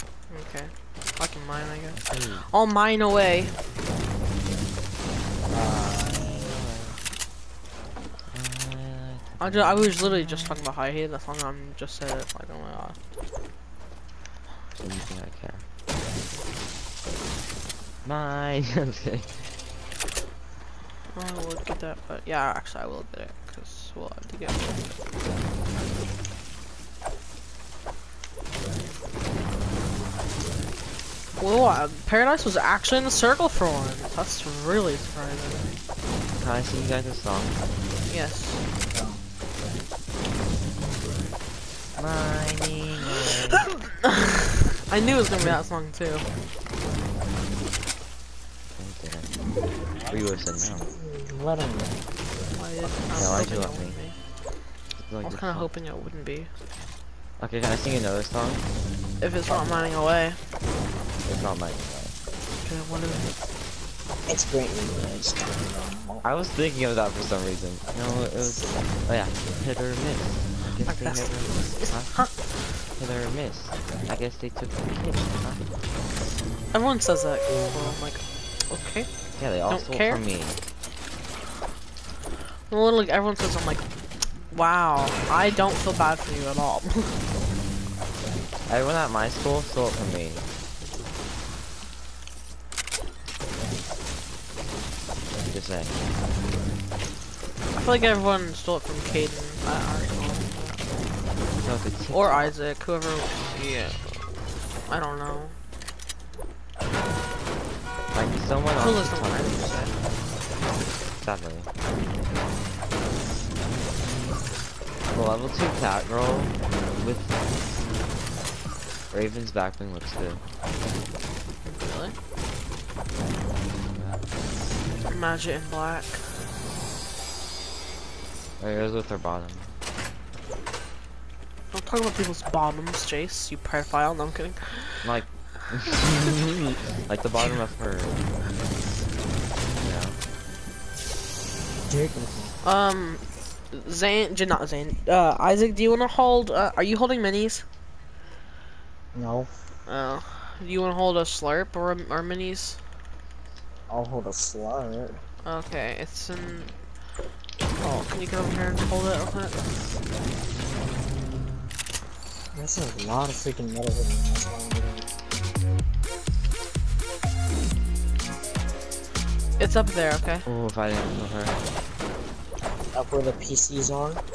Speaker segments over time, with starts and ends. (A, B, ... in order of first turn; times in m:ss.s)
0:00.3-0:03.5 A
0:01.9-0:02.5 B
0:05.5-0:06.6 C
0:06.0-0:07.0 B
0:08.3-0:10.6 B
0:09.4-0:13.0 A
0:14.8-0:15.6 B
0:18.0-0:19.3 B
0:21.1-0:24.9 A
0:31.4-0:35.7 A
0:36.4-0:37.6 B
0:38.1-0:38.6 A
0:38.9-0:39.2 C
0:42.0-0:43.7 B
0:44.0-0:46.2 A
0:48.8-0:49.4 B
0:50.0-0:50.9 B
0:50.1-0:52.0 C
0:52.6-0:54.2 A
0:53.1-0:54.0 B
0:53.2-0:53.5 C
0:55.0-0:55.7 B
0:55.2-0:56.5 A
0:57.4-0:58.6 B
0:59.2-1:00.4 A
0:59.5-1:00.0 C
1:01.2-1:02.1 B
1:02.6-1:03.3 A
1:04.2-1:06.2 C
1:06.2-1:15.7 B
1:10.8-1:12.3 A
1:16.7-1:19.1 A
1:17.5-1:17.9 C
1:19.4-1:20.6 B
1:19.7-1:20.2 A
1:22.7-1:23.8 A
1:24.5-1:27.2 A
1:28.7-1:30.5 B
1:35.5-1:36.1 B
1:37.7-1:40.8 A
1:41.6-1:42.5 B
1:42.1-1:44.2 A
1:44.9-1:45.5 A
1:48.1-1:50.0 B
1:48.7-1:50.0 A
1:51.2-1:51.7 B
1:55.1-1:57.5 B
1:59.1-2:00.4 B
2:01.6-2:02.1 A
2:03.9-2:04.3 B
2:05.1-2:06.2 A
2:08.6-2:09.7 B
2:11.7-2:15.1 A
2:15.0-2:18.2 B
2:19.8-2:20.2 B
2:21.9-2:22.6 C
2:22.6-2:27.6 A
2:29.1-2:29.5 C
2:29.9-2:32.8 A
2:33.9-2:35.2 C
2:35.4-2:36.7 A
2:37.7-2:39.7 A
2:42.5-2:45.0 C
2:49.6-2:50.5 A
2:50.4-2:51.6 B
2:52.9-2:54.2 C